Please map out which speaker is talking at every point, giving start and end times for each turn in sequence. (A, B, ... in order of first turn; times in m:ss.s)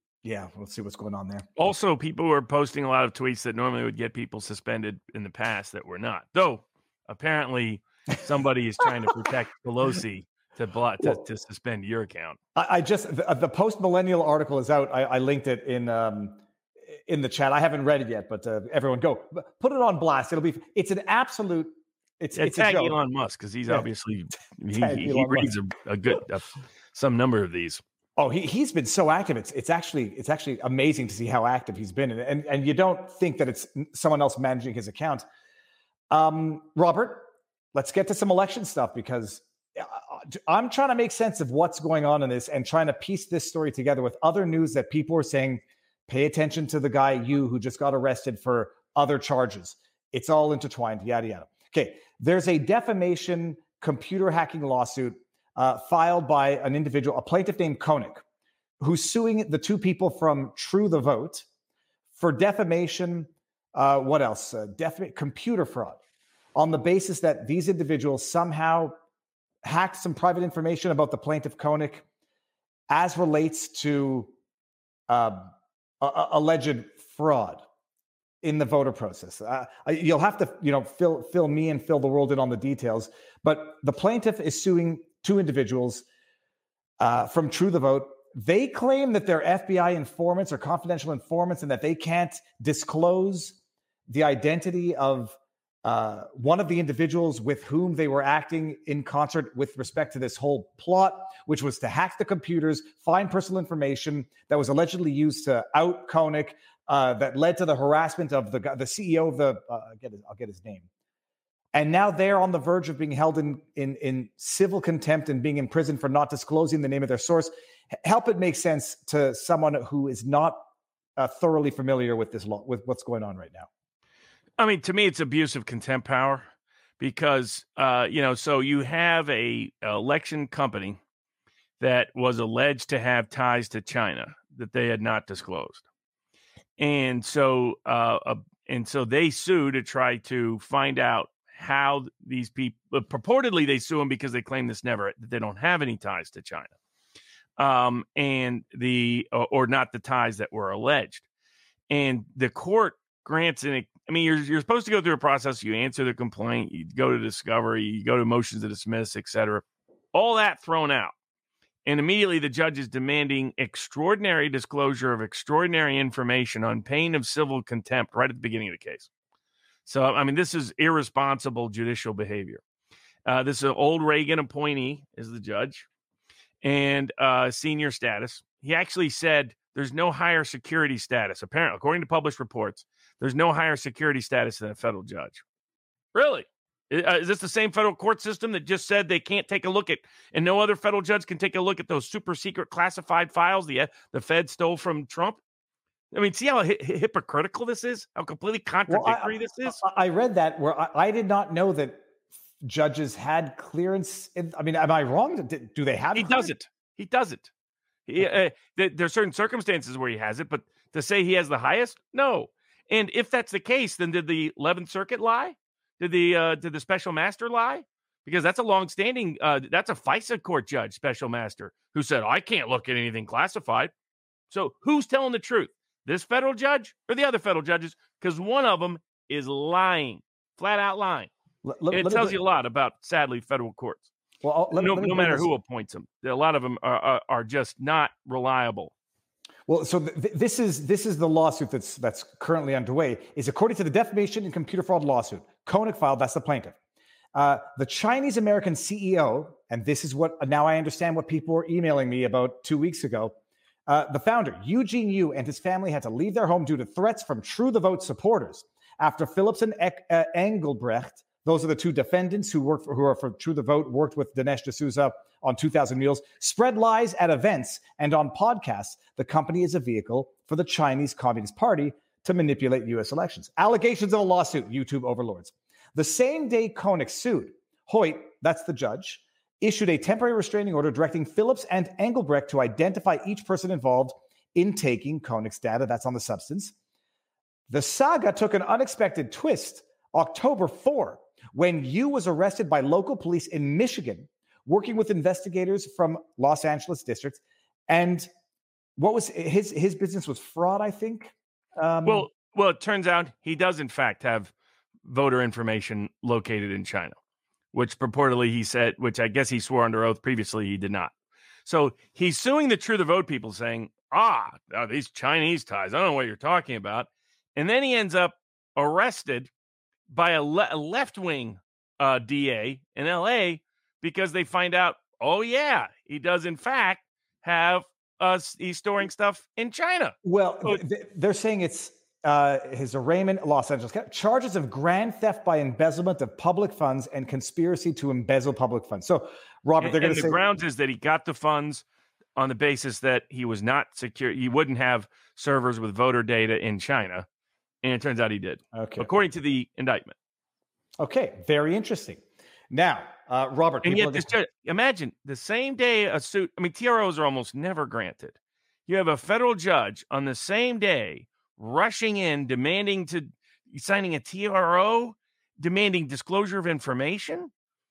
0:00.2-0:01.6 A
0:01.6-0:12.4 B
0:12.5-0:16.4 A
0:16.9-0:23.0 A
0:22.4-0:27.8 B
0:24.8-0:25.5 A
0:28.2-0:35.2 A
0:36.1-0:58.2 A
0:58.8-1:01.4 A
1:02.2-1:06.0 A
1:06.6-1:09.0 A
1:09.6-1:12.0 A
1:12.9-1:14.3 A
1:15.1-1:17.6 A
1:18.4-1:26.0 A
1:27.0-1:33.6 A
1:34.1-1:50.9 A
1:51.7-1:57.5 A
1:58.0-2:03.7 A
2:04.6-2:06.5 B
2:07.0-2:11.0 B
2:11.8-2:15.8 B
2:16.8-2:26.7 B
2:27.6-2:31.2 B
2:31.9-2:41.1 B
2:41.8-2:49.1 B
2:49.8-2:52.6 B
2:53.2-2:55.9 B
2:56.6-3:05.4 B
3:06.1-3:15.4 B
3:16.1-3:19.8 B
3:18.9-3:22.0 A
3:22.6-3:26.5 A
3:26.2-3:27.5 B
3:28.1-3:43.9 B
3:44.5-3:51.3 B
3:51.6-3:52.4 A
3:51.9-3:54.1 B
3:54.4-3:55.5 A
3:54.7-3:58.9 B
3:59.7-4:06.8 A
4:07.3-4:13.3 A
4:13.9-4:46.7 A
4:47.7-4:58.3 A
4:59.0-5:02.3 A
5:02.0-5:04.5 B
5:05.0-5:07.2 B
5:07.7-5:11.1 B
5:11.6-5:19.5 B
5:20.1-5:30.8 B
5:30.2-5:40.4 A
5:39.8-5:41.8 B
5:42.4-5:47.3 B
5:47.8-5:50.1 B
5:48.7-5:49.1 A
5:51.0-5:54.3 A
5:53.8-5:58.4 B
5:58.9-6:07.5 B